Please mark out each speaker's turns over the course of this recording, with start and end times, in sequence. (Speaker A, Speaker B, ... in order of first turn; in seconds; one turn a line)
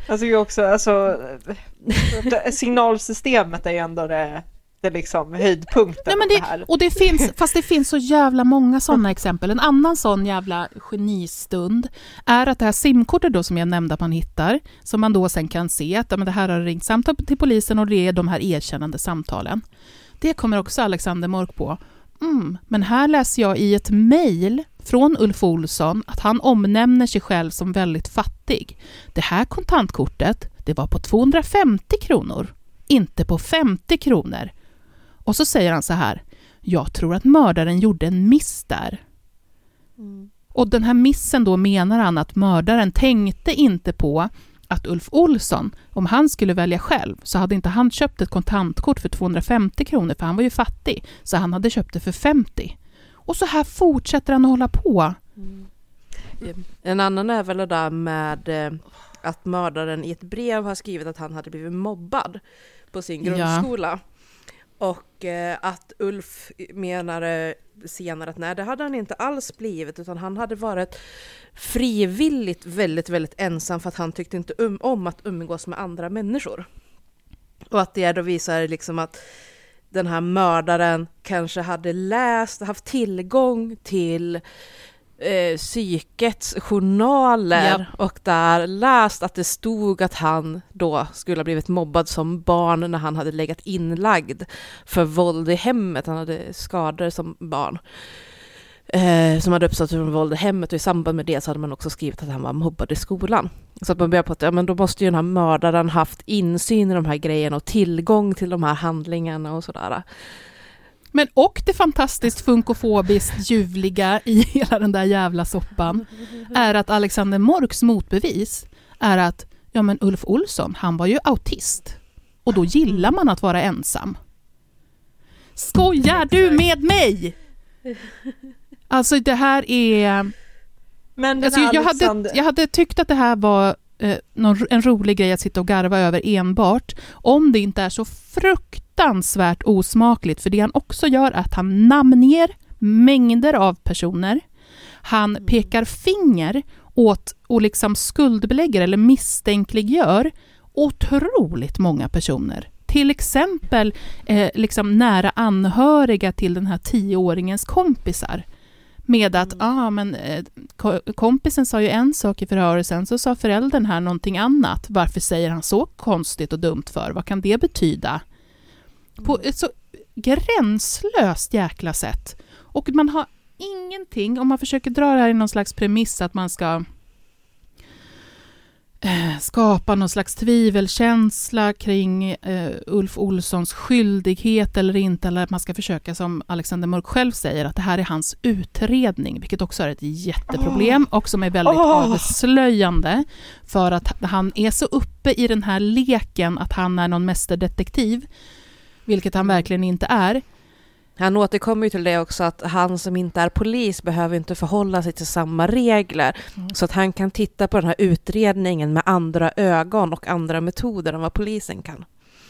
Speaker A: 0.1-6.7
Speaker B: 6.1-19.6
Speaker B: 20.2-34.5
Speaker B: 35.3-39.0
Speaker C: 40.0-40.3
Speaker B: 40.5-55.2
Speaker C: 55.4-55.7
Speaker C: 56.4-62.4
Speaker C: 62.9-64.0
Speaker B: 63.2-63.7
Speaker C: 64.8-71.0
Speaker C: 71.5-76.7
Speaker C: 77.7-79.2
Speaker C: 79.9-84.4
Speaker C: 85.2-98.1
Speaker B: 87.5-87.9
Speaker C: 98.9-110.0
Speaker B: 111.1-124.2
Speaker B: 125.6-127.4
Speaker B: 128.9-130.3
Speaker A: 131.2-132.4
Speaker B: 131.4-144.4
Speaker B: 145.0-158.4
Speaker B: 159.1-168.2
Speaker B: 169.2-176.8
Speaker B: 179.0-198.3
Speaker A: 190.5-191.0
Speaker A: 191.7-192.3
Speaker B: 199.1-200.4
Speaker C: 201.2-212.1